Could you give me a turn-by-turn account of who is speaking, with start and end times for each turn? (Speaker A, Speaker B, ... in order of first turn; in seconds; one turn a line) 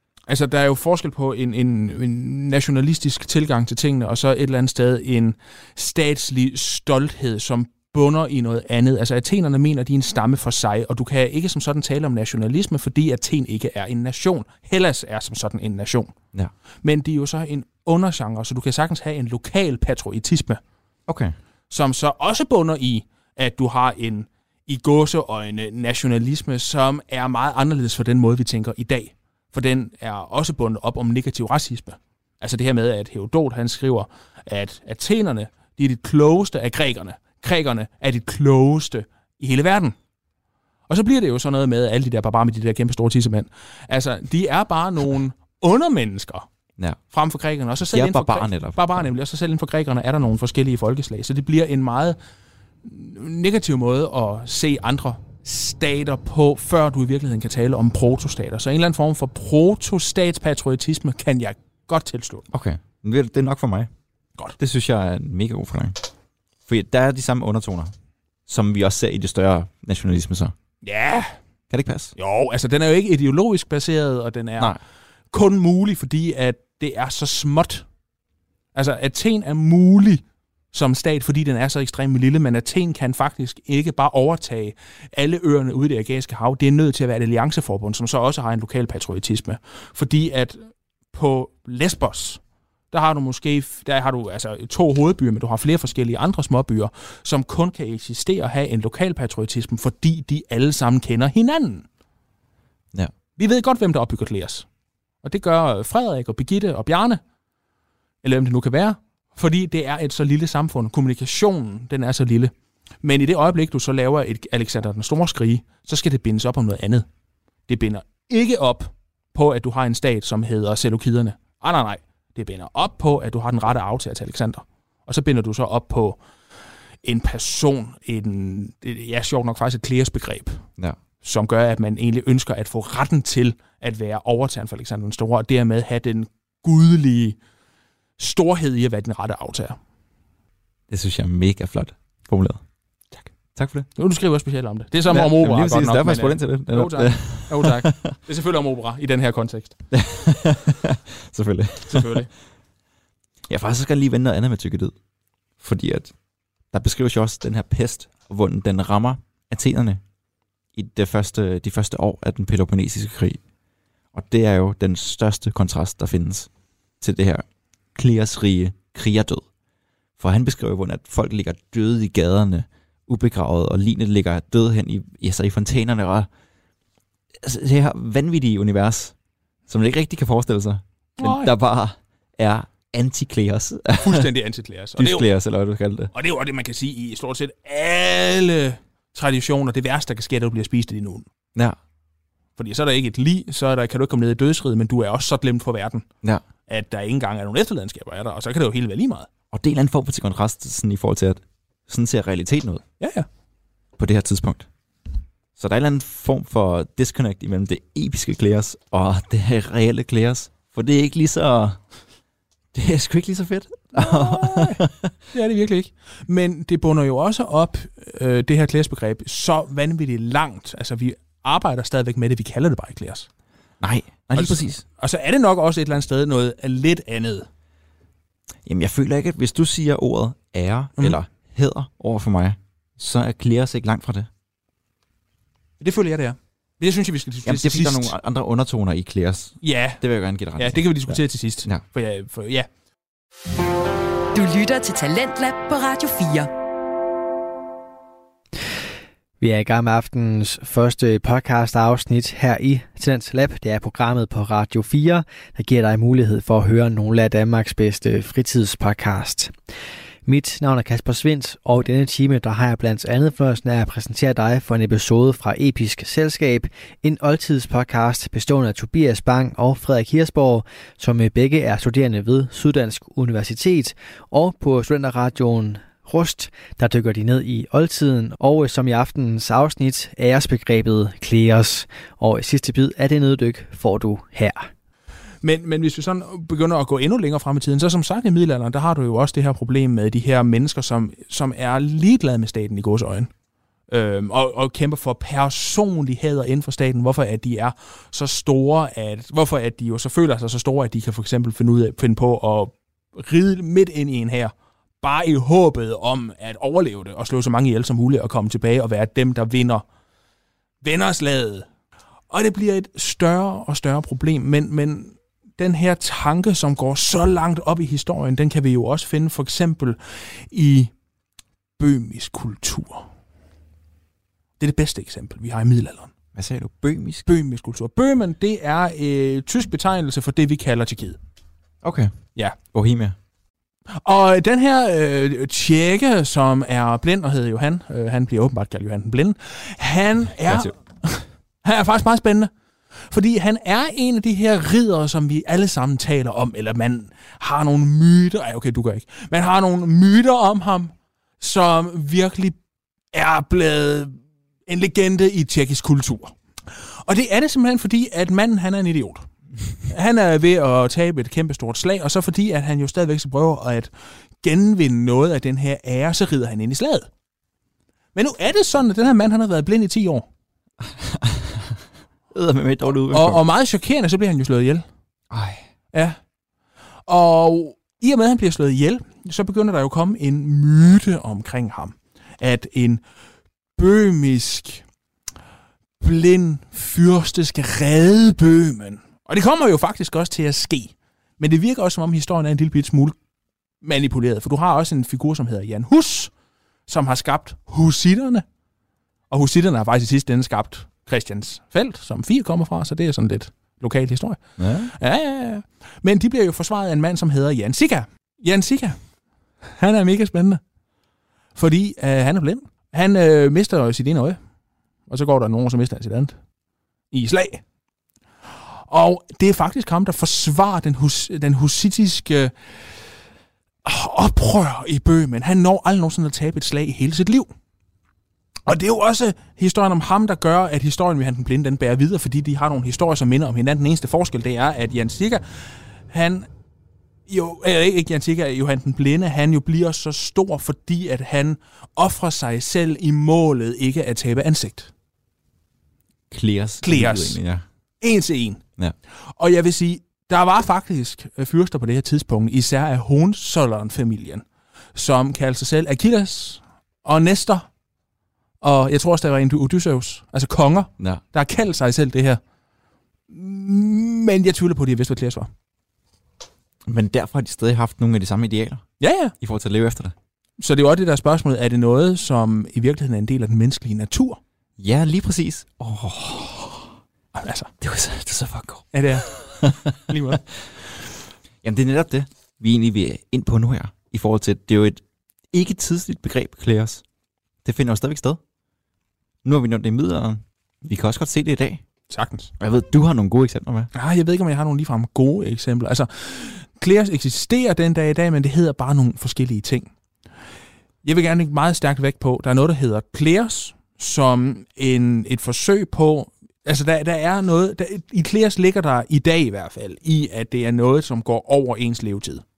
Speaker A: 0.3-16.1
Speaker A: 16.8-20.6
Speaker B: 21.1-21.4
Speaker A: 21.7-40.0
Speaker A: 40.9-46.5
Speaker A: 47.1-52.2
Speaker B: 47.9-49.1
Speaker A: 52.8-62.5
Speaker B: 62.5-63.9
Speaker B: 64.6-66.0
Speaker B: 66.7-67.9
Speaker B: 68.5-70.5
Speaker A: 70.8-71.3
Speaker B: 71.7-72.1
Speaker A: 72.2-74.8
Speaker A: 75.3-77.8
Speaker A: 78.8-92.4
Speaker A: 92.9-101.8
Speaker A: 103.4-104.7
Speaker A: 105.2-107.2
Speaker A: 108.2-117.1
Speaker A: 117.7-126.2
Speaker A: 127.0-130.6
Speaker A: 131.2-137.4
Speaker A: 138.2-139.8
Speaker B: 140.9-142.6
Speaker B: 143.6-143.9
Speaker A: 144.0-149.7
Speaker B: 145.1-148.2
Speaker B: 149.9-152.3
Speaker A: 151.8-152.3
Speaker B: 153.5-154.9
Speaker B: 155.6-156.1
Speaker B: 156.7-160.0
Speaker B: 160.8-163.4
Speaker B: 164.1-166.5
Speaker B: 167.0-169.5
Speaker B: 170.2-176.3
Speaker B: 177.4-179.1
Speaker B: 179.7-184.3
Speaker A: 181.2-181.5
Speaker A: 184.0-185.3
Speaker B: 185.0-186.1
Speaker A: 186.1-191.3
Speaker A: 192.6-196.1
Speaker A: 196.7-199.3
Speaker B: 199.5-202.8
Speaker A: 203.0-203.3
Speaker B: 204.0-204.7
Speaker B: 205.6-211.8
Speaker B: 212.7-215.1
Speaker A: 213.9-223.3
Speaker B: 223.8-224.8
Speaker A: 224.3-227.5
Speaker B: 228.7-234.3
Speaker A: 235.8-238.2
Speaker B: 237.4-241.8
Speaker A: 239.6-240.0
Speaker A: 240.6-242.7
Speaker C: 244.3-246.5
Speaker D: 249.4-259.5
Speaker D: 260.3-284.7
Speaker A: 285.4-293.3
Speaker A: 293.9-309.9
Speaker A: 310.8-311.7
Speaker A: 312.3-320.9
Speaker A: 321.8-323.1
Speaker A: 324.6-326.1
Speaker B: 326.4-327.3
Speaker A: 327.3-331.2
Speaker B: 331.8-332.1
Speaker B: 332.6-333.2
Speaker A: 333.9-342.5
Speaker B: 340.5-340.7
Speaker A: 343.1-352.6
Speaker A: 353.1-359.3
Speaker A: 359.9-363.9
Speaker A: 364.4-367.1
Speaker A: 368.1-370.2
Speaker B: 370.8-371.8
Speaker B: 372.3-373.4
Speaker A: 373.1-374.9
Speaker B: 375.3-375.6
Speaker A: 375.9-376.2
Speaker A: 377.1-383.0
Speaker A: 383.8-384.8
Speaker A: 386.0-393.1
Speaker A: 393.8-396.3
Speaker A: 396.9-398.4
Speaker A: 399.3-409.0
Speaker B: 404.6-404.9
Speaker A: 409.6-410.6
Speaker A: 411.6-414.4
Speaker A: 415.1-416.4
Speaker A: 417.1-417.6
Speaker A: 418.9-422.8
Speaker A: 423.8-427.5
Speaker A: 428.7-436.5
Speaker A: 437.3-444.9
Speaker B: 446.3-447.6
Speaker A: 446.8-447.4
Speaker A: 448.0-448.6
Speaker A: 449.4-457.7
Speaker A: 458.6-462.4
Speaker A: 463.3-465.5
Speaker B: 466.9-468.9
Speaker A: 469.0-469.3
Speaker B: 469.4-470.1
Speaker A: 470.6-474.4
Speaker B: 474.8-476.9
Speaker A: 477.3-477.7
Speaker B: 477.8-480.3
Speaker A: 478.9-480.5
Speaker B: 481.6-487.0
Speaker B: 487.6-488.4
Speaker B: 489.4-491.8
Speaker A: 492.1-492.5
Speaker B: 492.6-493.9
Speaker A: 493.9-499.9
Speaker A: 501.0-512.4